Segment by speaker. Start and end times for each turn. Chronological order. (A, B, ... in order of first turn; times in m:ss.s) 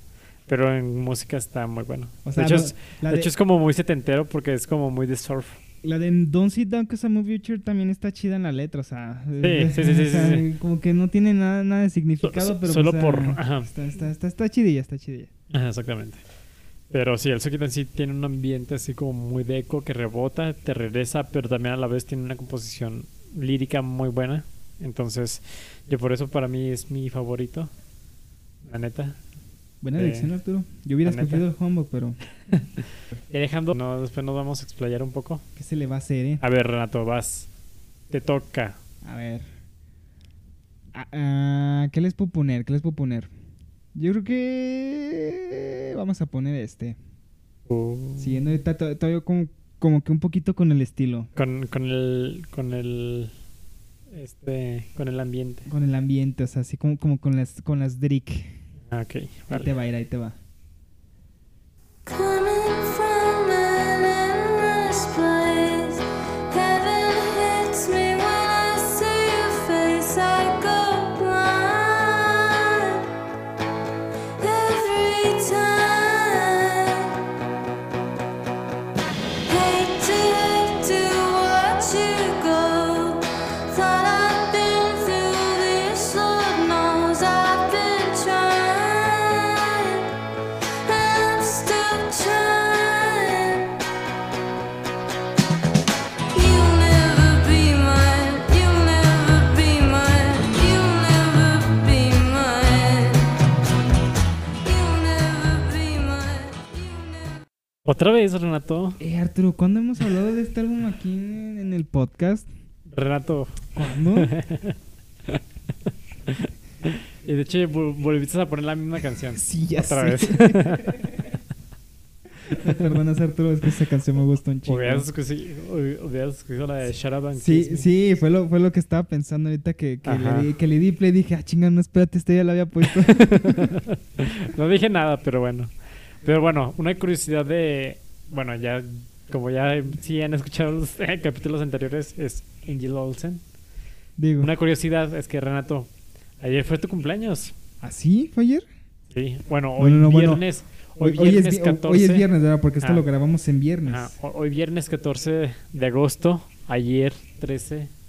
0:00.5-0:05.6 A
0:02.2-0:03.3 B
0:05.8-0:15.3 B
0:09.4-0:10.5 A
0:12.2-0:13.7 A
0:15.5-0:16.2 A
0:16.9-0:27.7 A
0:28.6-0:29.2 A
0:29.8-0:32.2 B
0:30.0-0:30.3 A
0:31.0-0:31.4 A
0:33.3-0:35.4 A
0:35.6-0:36.4 B
0:36.4-0:37.5 A
0:38.1-0:38.8 A
0:39.0-0:39.5 B
0:40.9-0:43.3 B
0:44.0-0:47.0 B
0:47.7-0:48.4 A
0:48.2-0:51.3 B
0:51.4-0:53.3 A
0:54.1-0:55.7 A
0:55.6-0:58.6 B
0:58.9-0:59.7 A
0:59.5-1:00.4 B
1:02.0-1:13.0 C
1:14.4-1:17.2 C
1:19.5-1:30.1 C
1:30.8-1:33.8 C
1:36.3-1:43.4 C
1:44.6-1:47.4 C
1:47.8-1:49.0 A
1:49.0-1:52.5 B
1:52.9-1:53.6 A
1:53.7-1:54.3 B
1:54.2-1:54.8 A
1:56.3-2:00.9 A
1:59.3-2:01.3 B
2:02.5-2:05.1 B
2:04.6-2:07.9 A
2:07.3-2:13.7 B
2:10.0-2:10.5 A
2:12.9-2:23.4 A
2:24.2-2:24.5 B
2:24.4-2:27.6 A
2:27.8-2:28.6 B
2:29.1-2:32.3 A
2:29.8-2:30.4 B
2:31.0-2:34.1 B
2:32.8-2:33.0 A
2:33.9-2:37.9 A